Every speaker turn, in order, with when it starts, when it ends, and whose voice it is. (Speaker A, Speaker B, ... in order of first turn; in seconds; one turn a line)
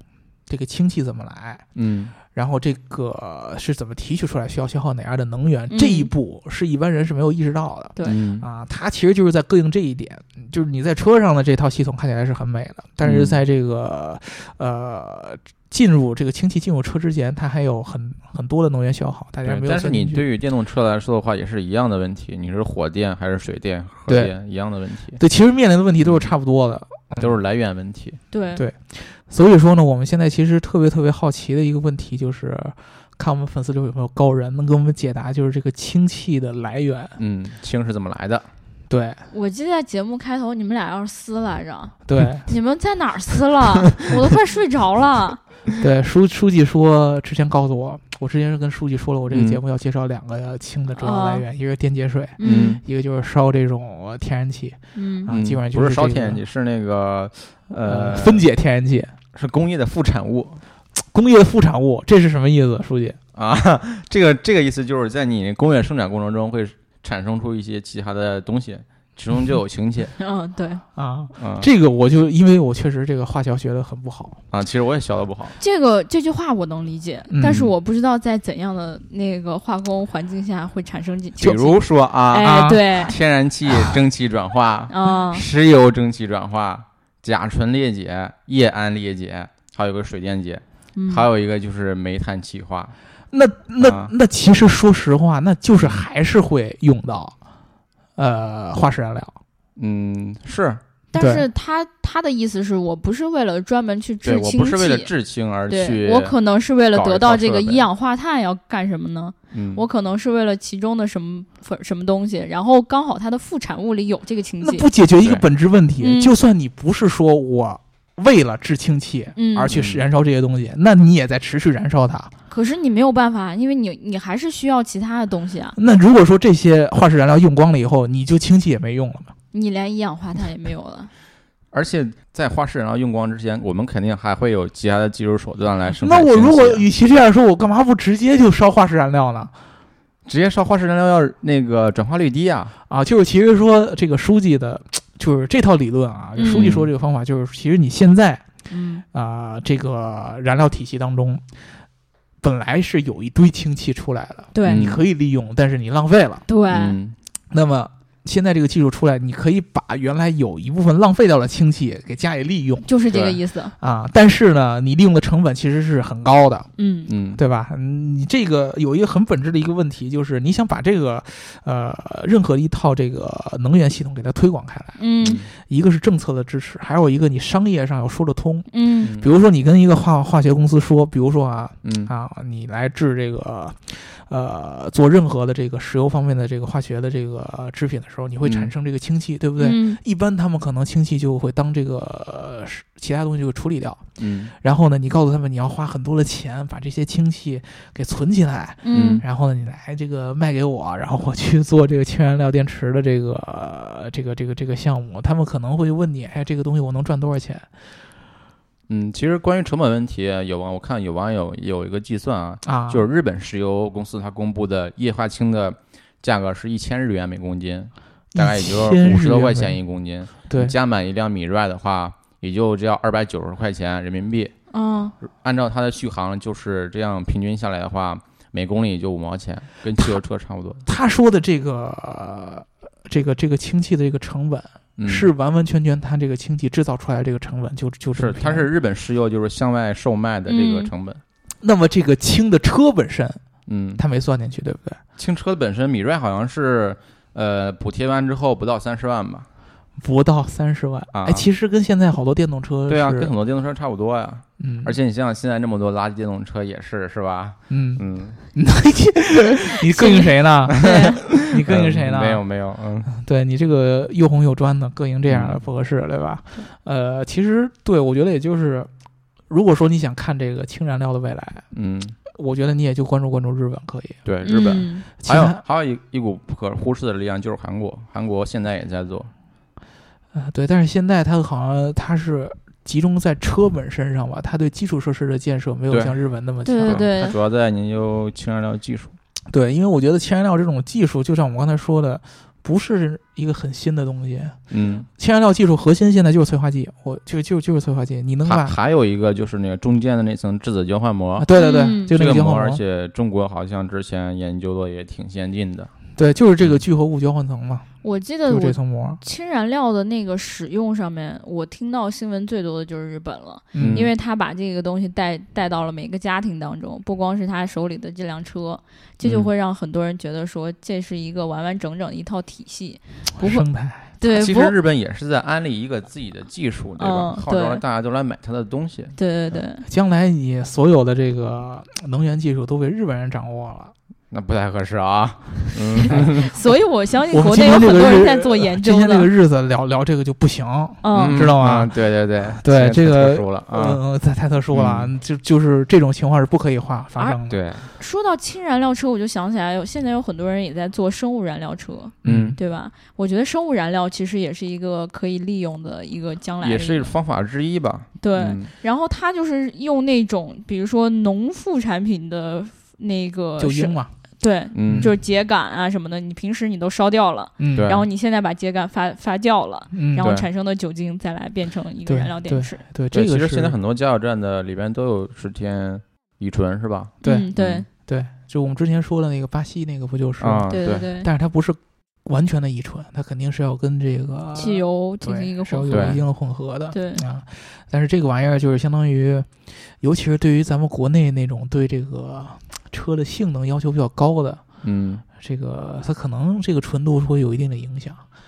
Speaker A: 0.5-1.6
Speaker B: 1.7-2.1
Speaker A: 2.3-20.2
Speaker C: 5.7-6.1
Speaker B: 8.0-8.4
Speaker B: 13.0-13.4
Speaker B: 19.4-25.2
Speaker A: 24.1-24.3
Speaker A: 25.2-27.4
Speaker B: 27.2-28.2
Speaker C: 28.3-28.6
Speaker A: 28.6-37.2
Speaker B: 37.2-38.5
Speaker A: 38.9-39.2
Speaker C: 39.3-45.4
Speaker A: 42.1-42.5
Speaker A: 45.8-56.4
Speaker B: 49.3-49.6
Speaker C: 51.0-51.4
Speaker C: 52.4-52.8
Speaker B: 52.4-52.8
Speaker C: 54.9-55.3
Speaker B: 55.3-58.4
Speaker A: 57.9-59.1
Speaker B: 59.3-60.6
Speaker A: 61.0-63.2
Speaker B: 63.4-70.1
Speaker C: 70.2-70.8
Speaker A: 71.0-74.4
Speaker B: 71.4-71.7
Speaker B: 74.5-75.6
Speaker C: 75.6-83.2
Speaker A: 77.3-77.7
Speaker B: 81.4-92.9
Speaker A: 82.4-82.8
Speaker C: 84.9-85.4
Speaker C: 91.0-91.3
Speaker A: 93.3-97.3
Speaker B: 93.8-94.1
Speaker B: 95.8-96.0
Speaker A: 98.2-99.4
Speaker B: 99.8-100.8
Speaker C: 101.1-105.1
Speaker A: 101.2-101.4
Speaker B: 104.2-106.4
Speaker C: 105.7-114.9
Speaker B: 106.9-107.8
Speaker B: 109.5-109.8
Speaker A: 114.6-122.3
Speaker C: 116.0-116.3
Speaker C: 119.4-119.7
Speaker B: 119.7-120.0
Speaker C: 122.5-125.8
Speaker A: 125.7-129.3
Speaker C: 129.5-131.1
Speaker B: 131.7-136.9
Speaker A: 136.0-139.5
Speaker B: 140.2-142.7
Speaker A: 142.9-148.4
Speaker C: 146.4-146.7
Speaker B: 146.5-146.9
Speaker C: 148.7-149.0
Speaker A: 149.1-151.4
Speaker A: 152.4-156.4
Speaker C: 154.5-154.9
Speaker B: 154.6-155.0
Speaker C: 156.5-157.0
Speaker B: 156.7-157.2
Speaker A: 157.5-162.9
Speaker C: 162.8-163.7
Speaker B: 163.1-163.4
Speaker A: 163.8-166.7
Speaker C: 166.8-167.1
Speaker B: 167.1-167.4
Speaker A: 167.3-175.0
Speaker C: 175.0-175.4
Speaker B: 175.2-175.5
Speaker A: 175.6-194.0
Speaker C: 178.7-179.1
Speaker B: 181.8-182.1
Speaker B: 188.4-188.7
Speaker C: 189.6-190.0
Speaker B: 194.2-194.5
Speaker A: 194.6-207.7
Speaker C: 198.8-199.2
Speaker B: 198.9-199.2
Speaker B: 208.9-224.5
Speaker A: 212.6-213.1
Speaker A: 218.3-219.8
Speaker A: 220.4-220.7
Speaker C: 224.7-225.1
Speaker B: 225.2-230.8
Speaker A: 230.8-238.7
Speaker B: 235.0-235.3
Speaker B: 238.1-241.2
Speaker C: 240.5-240.9
Speaker A: 241.6-243.4
Speaker B: 243.7-244.0
Speaker A: 243.9-245.0
Speaker B: 245.2-249.5
Speaker A: 250.0-253.3
Speaker B: 251.1-251.4
Speaker B: 252.9-258.4
Speaker A: 254.6-254.9
Speaker A: 257.7-262.4
Speaker C: 259.9-261.2
Speaker B: 260.7-263.1
Speaker A: 263.1-268.9
Speaker B: 265.3-265.6
Speaker A: 269.5-271.6
Speaker B: 271.7-272.1
Speaker A: 272.3-274.2
Speaker B: 274.2-279.3
Speaker C: 274.4-275.1
Speaker A: 275.2-275.6
Speaker A: 280.3-287.1
Speaker B: 285.9-286.2
Speaker C: 286.6-287.4
Speaker B: 286.8-289.1
Speaker A: 289.5-294.6
Speaker B: 294.7-295.1
Speaker A: 295.1-298.8
Speaker B: 298.4-301.5
Speaker A: 301.4-302.8
Speaker C: 301.6-302.1
Speaker B: 302.1-305.9
Speaker A: 306.1-307.9
Speaker C: 308.0-323.6
Speaker A: 308.4-309.2
Speaker A: 313.7-314.1
Speaker B: 313.8-314.1
Speaker B: 319.2-319.5
Speaker A: 323.4-324.1
Speaker C: 324.2-324.7
Speaker B: 324.2-329.2
Speaker C: 327.0-327.8
Speaker C: 329.1-329.9
Speaker A: 329.8-333.9
Speaker B: 334.3-336.5
Speaker C: 336.0-339.3
Speaker A: 337.3-347.6
Speaker C: 341.0-341.4
Speaker B: 341.1-344.0
Speaker B: 344.7-345.1
Speaker B: 347.5-347.9
Speaker C: 348.0-357.1
Speaker A: 352.2-352.6
Speaker B: 352.2-352.6
Speaker B: 356.6-358.7
Speaker C: 358.2-372.8
Speaker A: 363.6-364.1
Speaker B: 364.7-365.1
Speaker A: 364.9-365.1
Speaker A: 367.6-367.9
Speaker B: 367.8-368.1
Speaker A: 369.9-370.3
Speaker B: 370.2-370.5
Speaker A: 372.1-373.8
Speaker B: 373.1-377.9
Speaker C: 377.2-377.9
Speaker A: 377.2-389.5
Speaker B: 380.4-381.1
Speaker C: 380.7-381.3
Speaker C: 384.6-386.2
Speaker B: 385.9-386.2
Speaker C: 386.9-387.2
Speaker A: 390.0-394.6
Speaker B: 394.8-395.2
Speaker A: 395.4-398.2